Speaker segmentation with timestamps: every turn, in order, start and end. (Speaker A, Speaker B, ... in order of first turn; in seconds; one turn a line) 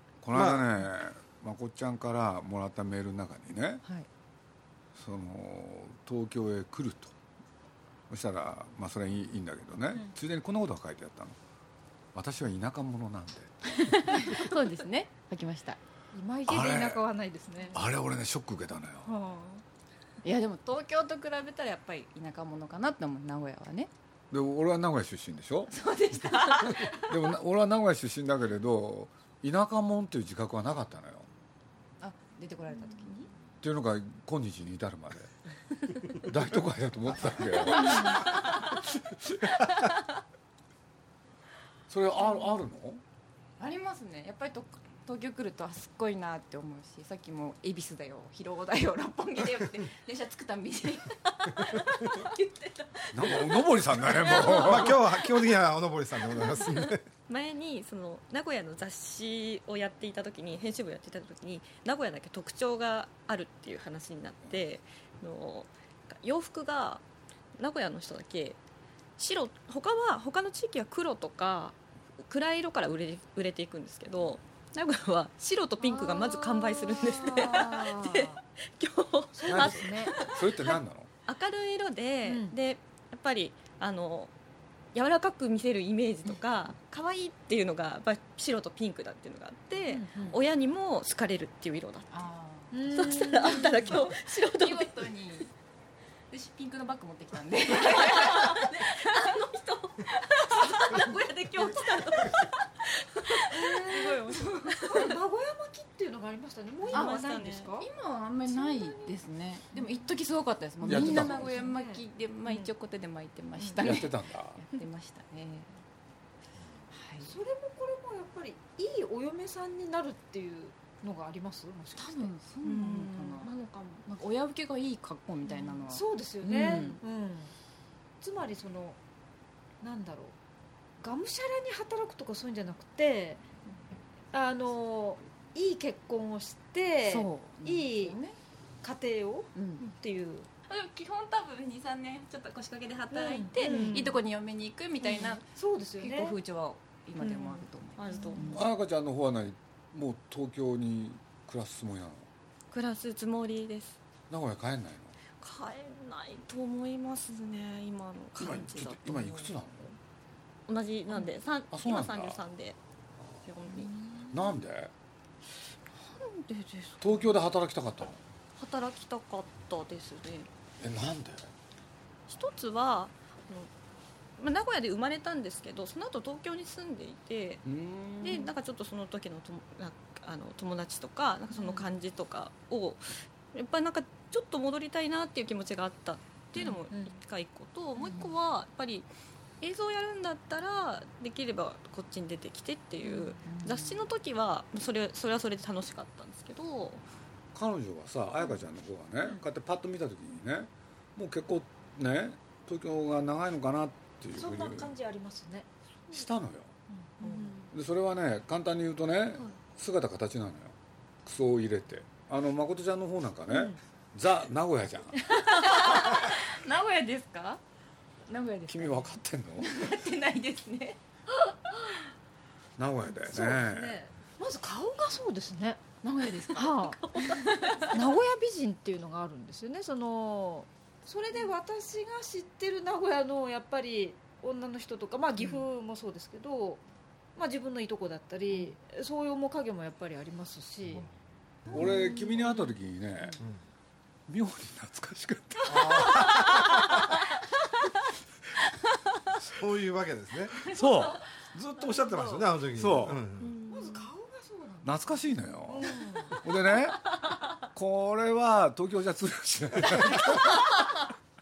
Speaker A: 0.2-3.8
Speaker B: 0.3-0.7
Speaker A: 5.0-7.1
Speaker A: 8.1-11.3
Speaker A: 12.1-13.5
Speaker C: 13.7-15.8
Speaker D: 16.1-17.8
Speaker A: 16.5-17.0
Speaker A: 17.7-19.1
Speaker D: 19.0-19.6
Speaker C: 20.2-23.9
Speaker A: 24.3-25.7
Speaker C: 25.7-27.2
Speaker A: 26.9-31.3
Speaker C: 32.0-33.3
Speaker A: 33.6-35.3
Speaker A: 36.1-39.5
Speaker A: 41.9-43.0
Speaker C: 43.6-54.9
Speaker A: 53.1-55.0
Speaker B: 54.5-57.0
Speaker E: 56.5-67.0
Speaker E: 67.6-68.6
Speaker E: 69.2-84.3
Speaker D: 75.8-78.4
Speaker D: 79.3-80.2
Speaker A: 79.4-81.1
Speaker D: 82.2-82.5
Speaker E: 84.9-92.1
Speaker D: 89.8-90.4
Speaker C: 92.1-95.5
Speaker D: 92.7-93.9
Speaker E: 92.9-95.1
Speaker C: 96.3-102.5
Speaker E: 97.8-99.4
Speaker E: 100.5-101.0
Speaker E: 101.6-102.4
Speaker C: 103.2-105.1
Speaker D: 103.5-107.9
Speaker E: 103.5-105.0
Speaker E: 106.9-107.7
Speaker C: 106.9-115.7
Speaker D: 108.5-109.2
Speaker D: 109.7-110.1
Speaker A: 110.8-111.5
Speaker D: 110.8-112.0
Speaker A: 113.8-114.6
Speaker C: 116.9-117.4
Speaker D: 117.2-122.3
Speaker C: 122.0-123.5
Speaker E: 122.6-124.0
Speaker C: 124.0-127.0
Speaker D: 125.5-127.5
Speaker E: 126.6-126.9
Speaker D: 128.2-129.0
Speaker D: 129.8-130.3
Speaker D: 131.0-133.4
Speaker D: 134.3-138.2
Speaker C: 137.0-138.4
Speaker D: 138.8-140.5
Speaker C: 139.5-139.8
Speaker C: 140.7-145.4
Speaker D: 143.1-144.2
Speaker E: 143.6-144.1
Speaker D: 145.0-146.4
Speaker C: 146.0-148.6
Speaker E: 147.2-148.6
Speaker A: 148.5-152.3
Speaker E: 152.7-154.0
Speaker A: 154.3-155.2
Speaker E: 155.4-159.5
Speaker A: 158.4-159.9
Speaker E: 160.7-162.8
Speaker A: 161.7-162.4
Speaker E: 163.4-163.9
Speaker A: 164.3-164.9
Speaker E: 165.9-167.3
Speaker A: 167.0-168.2
Speaker E: 168.6-170.5
Speaker A: 170.8-171.5
Speaker E: 172.3-173.7
Speaker E: 174.4-177.6
Speaker A: 177.6-178.5
Speaker E: 178.2-189.1
Speaker D: 181.5-181.8
Speaker C: 188.0-188.3
Speaker E: 189.6-197.0
Speaker D: 193.1-193.4
Speaker C: 193.4-194.0
Speaker A: 197.5-204.9
Speaker D: 204.3-205.7
Speaker A: 206.1-206.7
Speaker D: 206.9-207.6
Speaker E: 207.2-207.7
Speaker A: 207.7-215.2
Speaker D: 213.5-213.8
Speaker C: 215.3-217.6
Speaker C: 218.3-221.0
Speaker A: 218.7-219.8
Speaker A: 222.8-224.0
Speaker D: 223.3-225.8
Speaker C: 226.0-228.0
Speaker D: 226.5-227.2
Speaker D: 227.8-236.8
Speaker D: 237.3-241.1
Speaker A: 241.7-243.4
Speaker A: 244.3-246.5
Speaker B: 245.7-246.9
Speaker B: 249.4-250.6
Speaker A: 250.6-251.2
Speaker B: 251.5-253.5
Speaker D: 251.8-252.4
Speaker A: 252.7-253.2
Speaker E: 253.4-254.1
Speaker D: 253.6-254.9
Speaker A: 254.8-260.7
Speaker D: 255.7-256.4